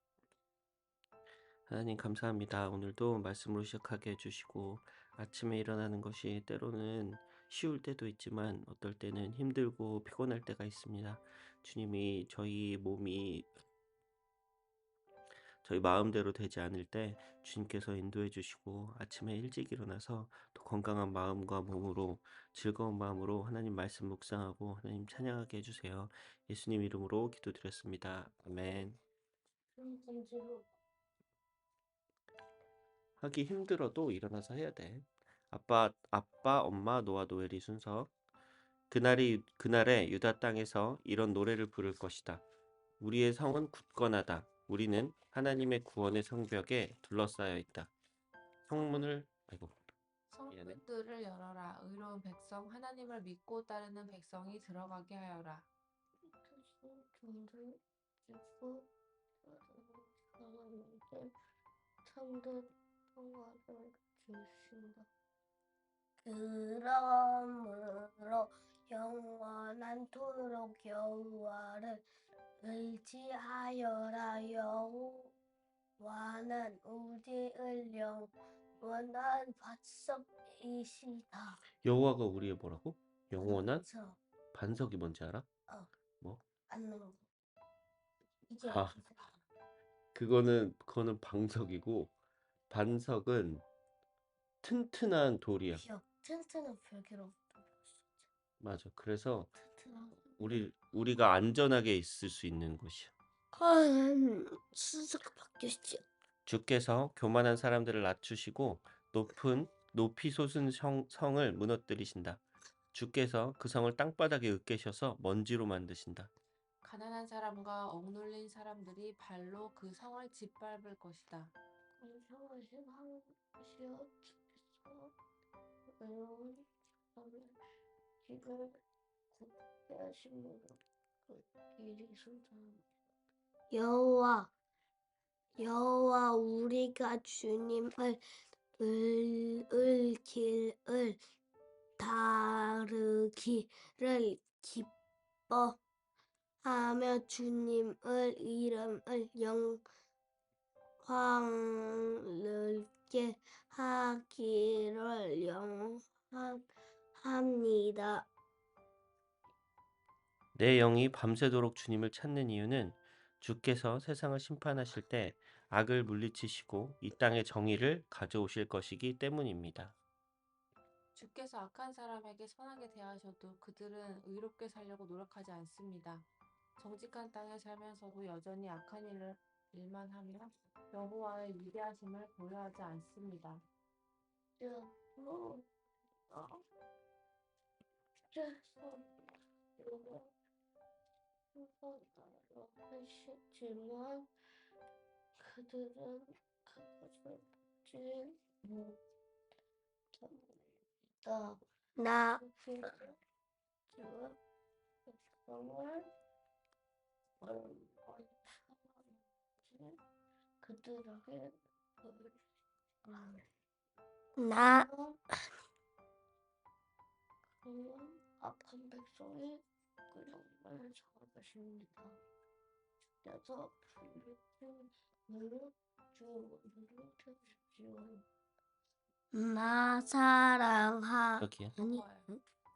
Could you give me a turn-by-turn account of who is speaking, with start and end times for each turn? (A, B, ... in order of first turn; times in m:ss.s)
0:01.7-0:13.5 A
0:15.6-0:29.0 A
0:29.8-0:30.6 B
0:33.2-0:38.1 A
0:38.9-0:42.4 A
0:43.0-0:47.9 A
0:48.7-0:49.8 A
0:48.7-0:49.1 C
0:50.3-0:55.7 C
0:50.5-0:50.8 A
0:56.4-0:58.9 B
0:59.4-1:01.3 B
1:02.0-1:05.1 B
1:06.2-1:12.0 B
1:12.6-1:15.3 B
1:16.0-1:21.6 B
1:21.8-1:23.8 A
1:23.4-1:24.2 B
1:24.5-1:25.4 A
1:26.7-1:27.2 B
1:28.5-1:29.4 B
1:28.6-1:29.0 A
1:30.1-1:32.1 A
1:32.7-1:33.6 A
1:34.6-1:35.8 A
1:35.8-1:38.1 B
1:38.6-1:39.5 A
1:39.6-1:40.6 B
1:40.4-1:43.1 A
1:43.5-1:46.0 B
1:46.4-1:52.4 A
1:52.9-1:56.3 A
1:56.8-2:01.5 C
2:02.0-2:05.1 B
2:06.0-2:07.6 B
2:08.2-2:08.8 B
2:09.3-2:12.8 B
2:13.7-2:14.5 B
2:15.6-2:18.2 B
2:18.8-2:21.2 B
2:22.0-2:24.9 B
2:25.5-2:25.8 B
2:26.6-2:29.8 B
2:31.0-2:38.3 B
2:40.5-2:49.9 A
2:51.1-3:03.6 C
3:04.6-3:05.6 B
3:06.3-3:06.6 B
3:08.3-3:09.1 B
3:09.8-3:10.3 B
3:11.5-3:14.3 B
3:15.4-3:19.0 B
3:20.2-3:20.6 B
3:21.2-3:23.2 B
3:23.9-3:24.4 B
3:25.1-3:26.1 B
3:27.4-3:30.0 B
3:30.6-3:32.3 B
3:33.0-3:33.4 B
3:34.4-3:35.2 B
3:37.6-3:42.2 B
3:43.2-3:48.2 B
3:49.3-3:52.4 B
3:51.4-3:51.7 A
3:51.8-3:52.3 C